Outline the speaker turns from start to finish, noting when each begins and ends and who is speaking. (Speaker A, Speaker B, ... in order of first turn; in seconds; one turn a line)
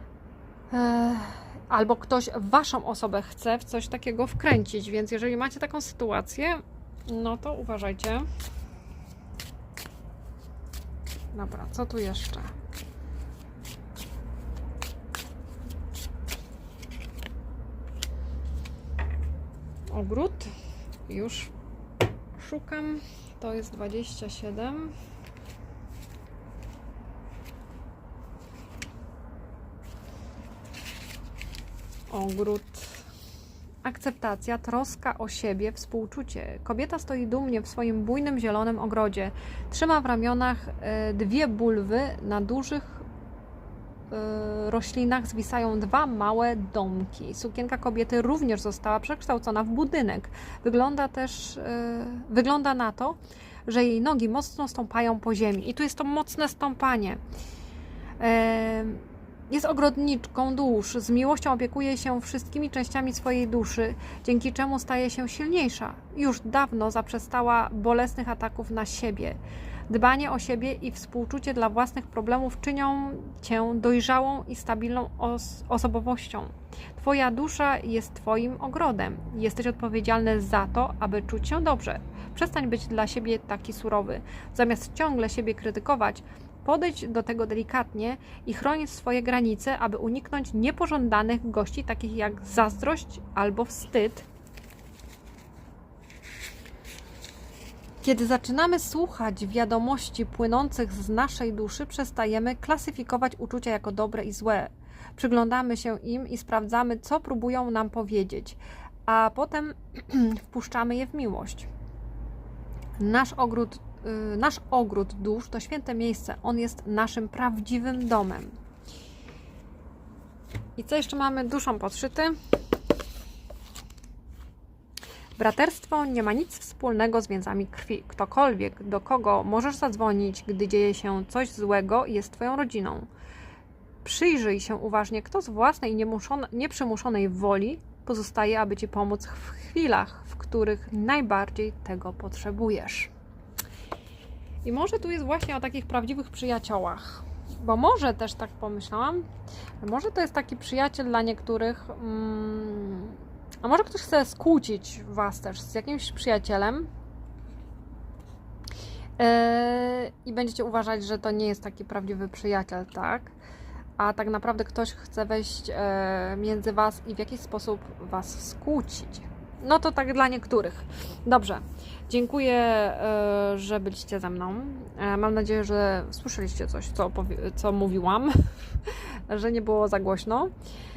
Speaker A: 0.7-8.3
Speaker A: 11.3-12.5
Speaker A: 19.9-20.5
Speaker A: 21.1-21.5
Speaker A: 22.4-24.9
Speaker A: 32.1-33.0
Speaker A: 33.8-43.0
Speaker A: 44.1-57.2
Speaker A: 58.2-94.3
Speaker A: 98.0-111.7
Speaker A: 113.0-118.6
Speaker A: 120.8-122.3
Speaker A: 125.4-133.1
Speaker A: 134.0-143.1
Speaker A: 144.6-149.3
Speaker A: 149.8-156.9
Speaker A: 159.2-163.3
Speaker A: 164.0-180.5